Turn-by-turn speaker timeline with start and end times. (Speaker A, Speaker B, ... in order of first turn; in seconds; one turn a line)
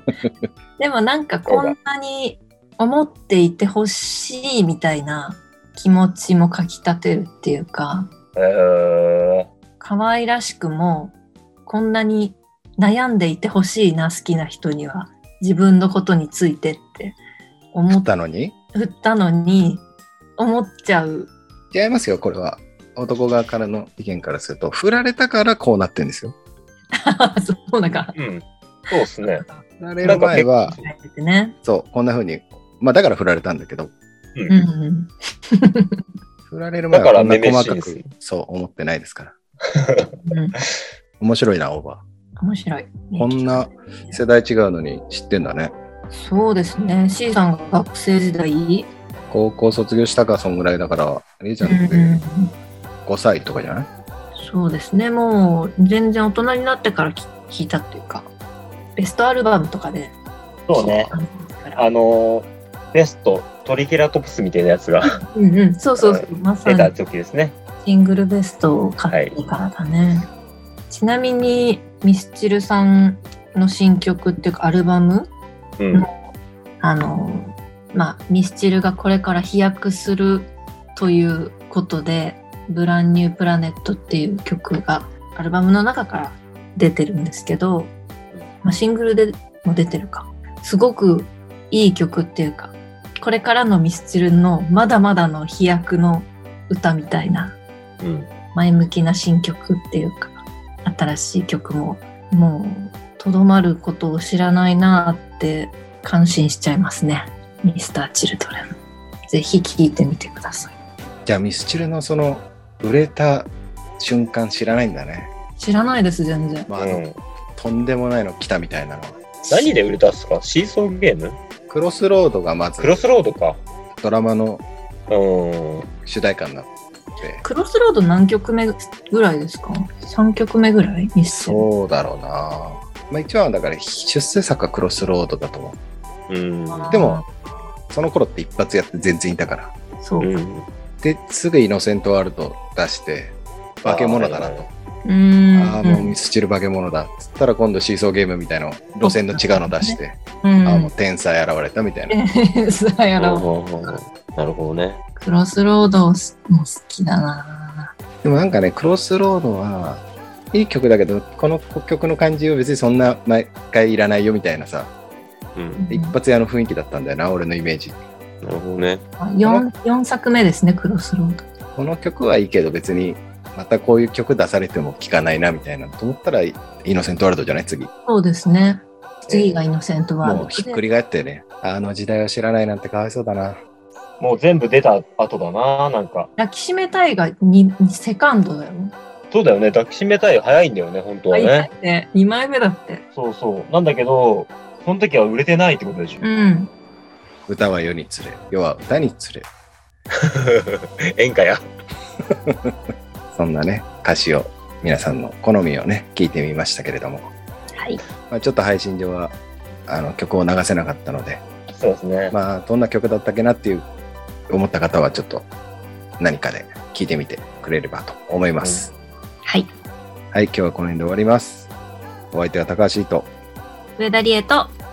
Speaker A: 0.8-8.1
Speaker B: 1.5-1.8
Speaker B: 8.3-9.5
Speaker A: 9.8-11.1
Speaker A: 11.7-17.2
Speaker A: 17.7-18.1
Speaker C: 17.9-18.5
Speaker A: 18.7-19.8
Speaker A: 20.4-21.3
Speaker C: 21.7-26.4
Speaker A: 26.9-28.1
Speaker B: 28.1-29.4
Speaker A: 28.9-31.6
Speaker C: 29.8-30.8
Speaker B: 30.0-30.5
Speaker C: 31.6-33.9
Speaker A: 34.5-36.0
Speaker C: 36.5-39.4
Speaker B: 36.9-38.1
Speaker B: 39.7-40.1
Speaker A: 40.3-40.5
Speaker C: 41.2-42.0
Speaker A: 42.4-44.2
Speaker C: 43.1-45.7
Speaker A: 46.1-48.9
Speaker C: 49.3-52.2
Speaker A: 51.6-52.5
Speaker C: 53.0-53.9
Speaker A: 54.4-58.3
Speaker A: 59.0-60.1
Speaker B: 60.7-61.1
Speaker A: 60.7-61.8
Speaker B: 61.8-65.2
Speaker A: 65.2-66.9
Speaker B: 66.0-67.5
Speaker A: 67.8-70.3
Speaker B: 69.1-69.3
Speaker A: 70.9-75.3
Speaker B: 75.8-76.0
Speaker A: 76.8-87.9
Speaker A: 88.6-97.6
Speaker B: 98.0-98.3
Speaker A: 98.5-108.7
Speaker A: 109.3-110.7
Speaker C: 111.2-115.3
Speaker A: 115.6-116.7
Speaker C: 116.7-117.0
Speaker B: 116.8-117.2
Speaker C: 117.5-119.2
Speaker B: 119.5-121.4
Speaker C: 121.7-122.9
Speaker B: 122.8-123.6
Speaker C: 124.0-124.6
Speaker B: 125.1-125.9
Speaker C: 126.0-127.4
Speaker A: 127.4-131.7
Speaker C: 131.3-135.8
Speaker B: 136.3-136.9
Speaker A: 136.7-137.3
Speaker C: 136.9-137.2
Speaker C: 137.9-139.7
Speaker A: 140.0-140.3
Speaker B: 140.2-140.7
Speaker C: 141.0-144.7
Speaker B: 143.8-144.7
Speaker A: 145.0-146.1
Speaker C: 145.6-152.2
Speaker A: 149.0-150.9
Speaker A: 152.1-153.4
Speaker B: 153.2-155.0
Speaker A: 155.2-157.9
Speaker C: 158.2-164.9
Speaker B: 165.5-165.8
Speaker A: 165.8-166.1
Speaker C: 165.9-168.0
Speaker B: 168.4-169.0
Speaker A: 169.2-171.4
Speaker C: 169.4-169.7
Speaker C: 171.8-177.9
Speaker A: 178.1-180.8
Speaker B: 179.2-179.6
Speaker C: 180.2-183.6
Speaker B: 184.2-186.3
Speaker A: 186.4-188.9
Speaker B: 189.3-191.7
Speaker A: 191.3-193.0
Speaker B: 193.1-196.2
Speaker A: 196.2-196.7
Speaker C: 197.5-199.5
Speaker B: 200.1-201.6
Speaker C: 202.3-202.8
Speaker C: 203.3-207.3
Speaker A: 207.8-208.0
Speaker C: 208.3-209.3
Speaker C: 209.9-211.4
Speaker B: 211.7-212.3
Speaker C: 212.3-213.9
Speaker C: 214.5-215.5
Speaker C: 216.2-218.9
Speaker B: 218.6-218.9
Speaker C: 220.3-221.7
Speaker C: 222.3-223.3
Speaker A: 224.0-224.7